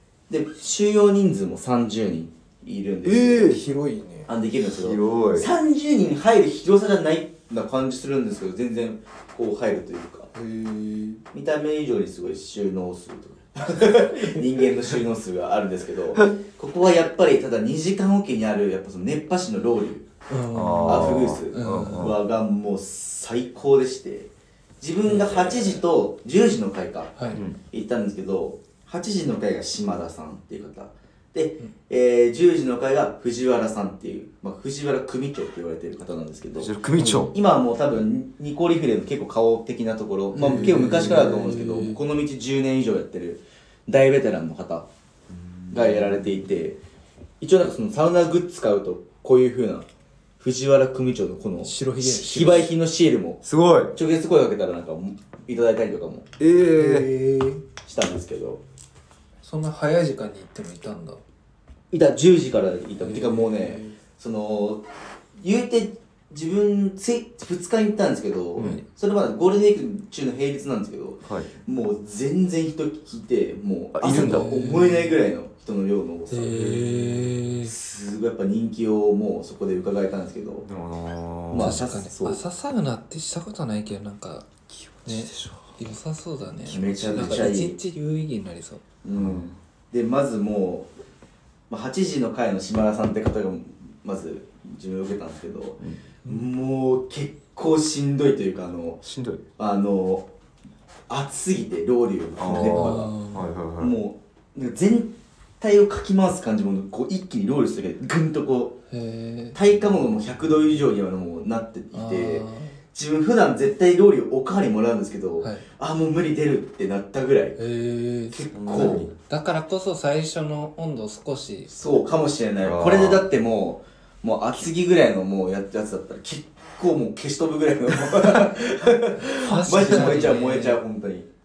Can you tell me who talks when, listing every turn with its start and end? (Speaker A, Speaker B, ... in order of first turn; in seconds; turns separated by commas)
Speaker A: 0.3-3.6, Speaker B: 3.0-4.3, Speaker A: 4.3-10.3, Speaker C: 4.7-5.5, Speaker B: 10.3-11.2, Speaker A: 11.3-20.1, Speaker B: 20.3-22.1, Speaker C: 20.5-22.2, Speaker A: 20.8-44.9, Speaker B: 25.1-25.8, Speaker B: 27.2-27.4, Speaker C: 27.3-27.6, Speaker C: 36.6-37.4, Speaker B: 37.0-37.3, Speaker B: 40.3-42.0, Speaker C: 45.3-46.5, Speaker A: 45.7-46.8, Speaker A: 47.4-49.9, Speaker A: 50.4-56.3, Speaker B: 51.6-52.7, Speaker C: 53.4-54.0, Speaker C: 56.4-57.1, Speaker B: 56.6-57.6, Speaker A: 57.8-58.6, Speaker B: 59.4-61.2, Speaker A: 61.9-64.8, Speaker B: 63.0-64.0, Speaker A: 65.4-76.7, Speaker C: 68.6-68.8, Speaker C: 71.2-71.5, Speaker C: 73.9-74.5, Speaker B: 74.0-75.2, Speaker B: 76.3-77.7, Speaker C: 76.5-77.4, Speaker A: 77.6-80.7, Speaker C: 80.6-81.9, Speaker A: 81.5-82.4, Speaker B: 81.6-84.5, Speaker C: 84.7-85.8, Speaker B: 85.0-88.8, Speaker A: 86.7-87.8, Speaker C: 86.7-87.5, Speaker A: 89.0-90.9, Speaker C: 89.1-89.5, Speaker A: 91.7-99.0, Speaker C: 99.0-99.4, Speaker A: 99.6-100.3, Speaker A: 101.1-103.1, Speaker C: 102.3-104.0, Speaker B: 102.5-103.4, Speaker A: 103.8-108.8, Speaker B: 108.9-109.6, Speaker A: 109.5-117.6, Speaker B: 111.9-112.8, Speaker B: 115.4-115.7, Speaker B: 117.6-121.7, Speaker A: 118.3-119.1, Speaker C: 118.5-119.1, Speaker A: 121.7-131.3, Speaker C: 122.6-123.2, Speaker B: 129.4-130.8, Speaker C: 129.8-130.3